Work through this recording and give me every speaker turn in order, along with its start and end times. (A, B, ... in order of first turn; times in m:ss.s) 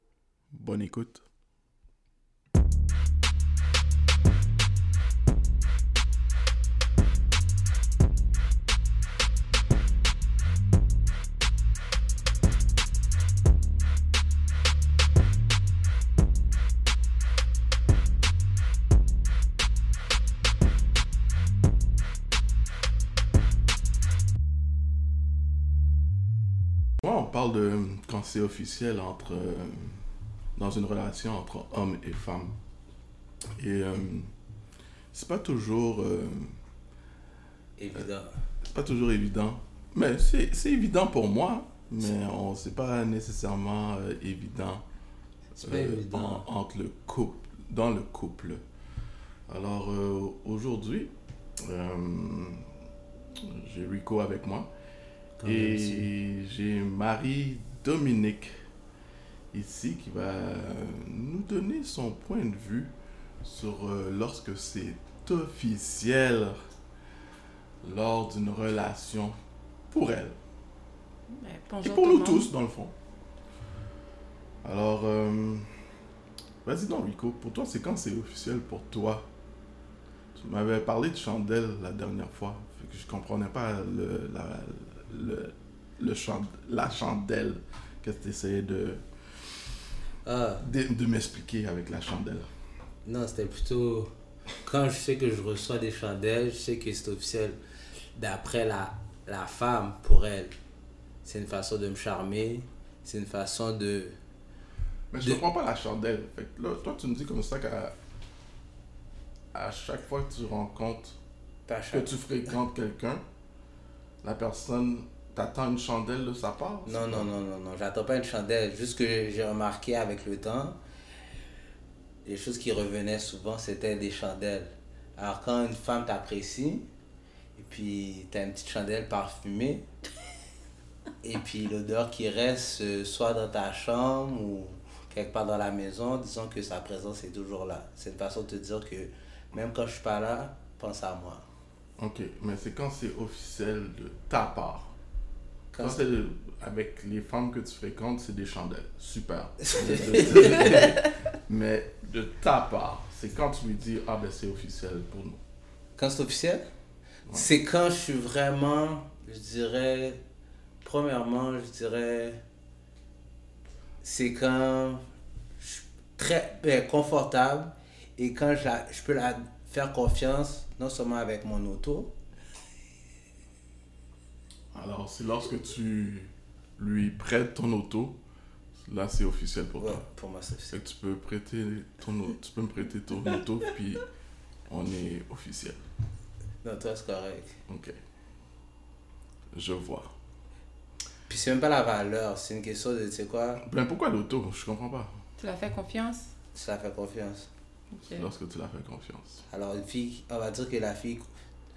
0:00.5-0:01.2 A
0:27.0-0:30.0 A
0:30.6-0:32.6 A
0:33.6-0:34.3 A
0:35.1-0:36.6 A
0:37.8-0:38.4 B
0:38.6-0:44.8 A
0:45.6-0:46.4 B
0:45.6-0:48.6 A
0:49.5-0:51.1 A
0:51.6-0:52.6 A
0:53.4-0:54.7 A
0:55.4-0:56.1 B
0:55.4-0:58.5 A
0:59.5-1:06.6 A
1:07.8-1:09.4 A
1:09.9-1:10.4 A
1:11.3-1:12.5 C
1:11.8-1:12.9 A
1:14.6-1:15.7 A
1:16.6-1:19.3 A
1:20.3-1:29.0 A
1:30.2-1:30.7 B
1:30.6-1:32.5 A
1:33.0-1:37.6 B
1:38.1-1:40.5 B
1:41.2-1:44.2 B
1:45.1-1:47.9 A
1:49.5-1:51.2 A
1:51.7-1:52.2 B
1:51.9-1:53.2 A
1:54.2-1:57.3 A
1:56.8-2:00.8 B
2:02.2-2:06.8 B
2:07.6-2:09.8 B
2:11.2-2:21.4 B
2:22.0-2:24.9 A
2:25.7-2:26.0 B
2:25.8-2:35.4 A
2:29.6-2:30.9 B
2:36.0-2:36.6 B
2:37.3-2:40.2 B
2:40.8-2:42.4 B
2:44.0-2:45.0 B
2:45.6-2:52.1 B
2:54.7-2:58.2 A
2:58.8-3:00.0 A
2:59.8-3:00.8 B
3:00.7-3:04.0 A
3:04.7-3:05.8 A
3:06.6-3:07.6 B
3:07.7-3:07.9 A
3:09.5-3:10.1 A
3:11.3-3:13.6 B
3:13.6-3:15.1 A
3:15.4-3:16.3 C
3:16.5-3:17.5 B
3:17.9-3:18.3 C
3:18.1-3:19.4 A
3:19.5-3:21.2 B